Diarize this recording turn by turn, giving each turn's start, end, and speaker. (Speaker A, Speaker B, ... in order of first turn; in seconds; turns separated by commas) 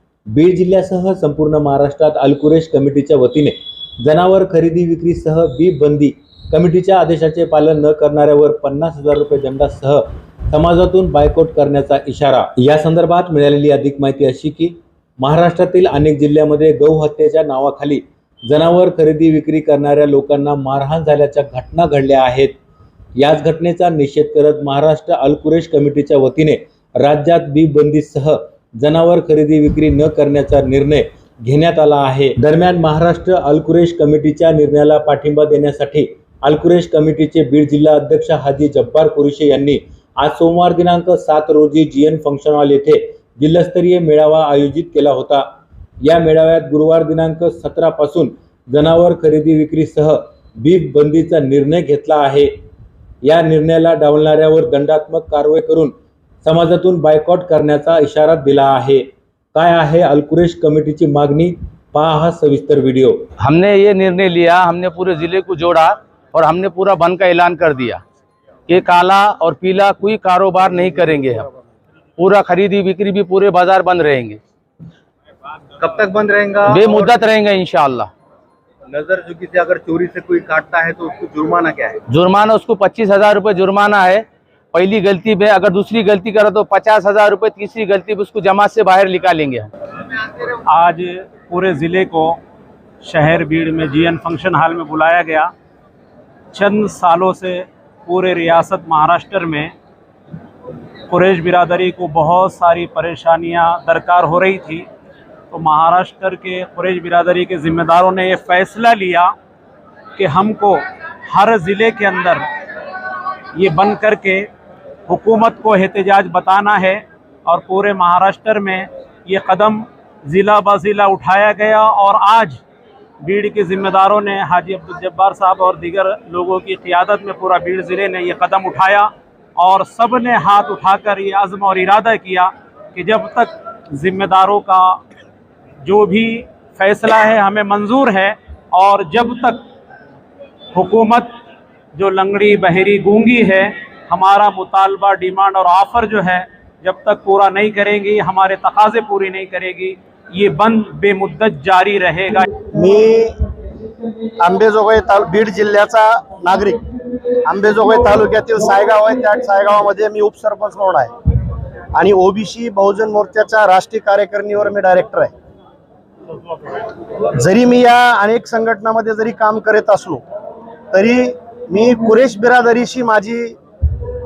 Speaker A: 0.3-22.5, Speaker A: 23.2-45.5, Speaker A: 46.0-52.5, Speaker A: 53.2-63.3, Speaker B: 63.4-68.0, Speaker B: 68.7-71.5, Speaker B: 72.2-74.4, Speaker C: 75.8-77.2, Speaker B: 76.7-78.1, Speaker C: 78.9-82.0, Speaker B: 82.1-89.7, Speaker D: 90.5-92.4, Speaker D: 93.0-95.5, Speaker D: 96.5-99.7, Speaker D: 101.1-104.8, Speaker D: 105.5-109.3, Speaker D: 110.2-112.4, Speaker D: 113.5-114.5, Speaker D: 115.1-122.6, Speaker D: 123.2-135.0, Speaker D: 135.8-139.6, Speaker D: 140.7-141.3, Speaker D: 141.9-152.5, Speaker E: 152.7-153.4, Speaker E: 154.4-156.8, Speaker E: 157.4-161.1, Speaker E: 161.9-165.3, Speaker E: 167.3-170.2, Speaker E: 170.9-173.6